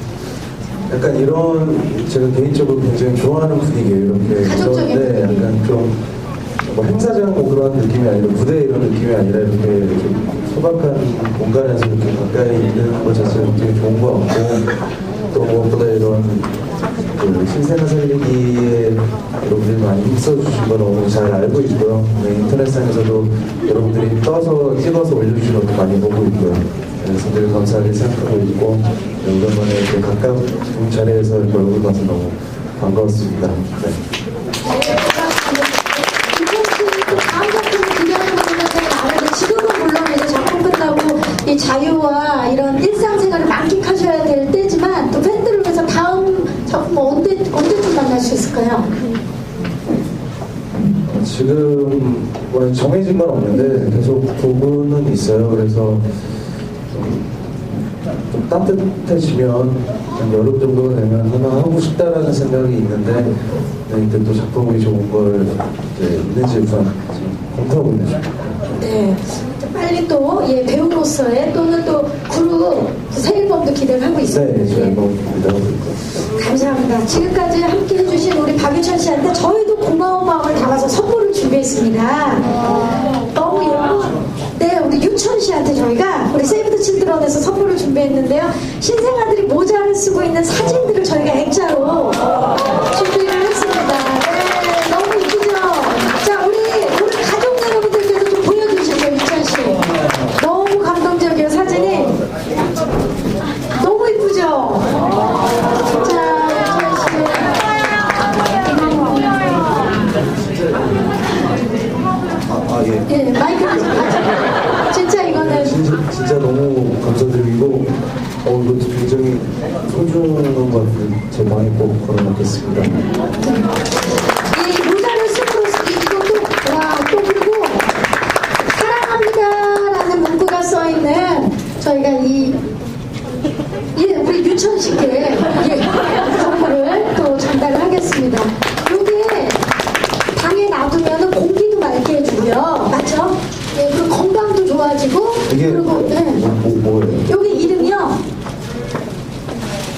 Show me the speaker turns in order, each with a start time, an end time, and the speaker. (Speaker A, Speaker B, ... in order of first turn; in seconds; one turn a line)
Speaker A: 0.9-6.0
Speaker B: 4.3-5.5
Speaker A: 6.7-14.7
Speaker A: 15.3-16.5
Speaker A: 17.2-34.0
Speaker B: 34.7-48.9
Speaker A: 51.1-56.0
Speaker A: 56.9-57.3
Speaker A: 58.3-63.3
Speaker A: 63.9-68.6
Speaker B: 68.7-75.0
Speaker A: 74.3-76.0
Speaker B: 76.3-82.6
Speaker B: 83.3-102.2
Speaker B: 103.7-105.0
Speaker B: 105.9-107.5
Speaker A: 110.4-111.1
Speaker A: 112.5-113.1
Speaker B: 113.1-115.8
Speaker A: 115.3-123.0
Speaker B: 124.5-127.9
Speaker B: 128.7-132.6
Speaker B: 133.9-139.6
Speaker B: 140.3-146.4
Speaker A: 145.5-147.3
Speaker B: 147.3-148.2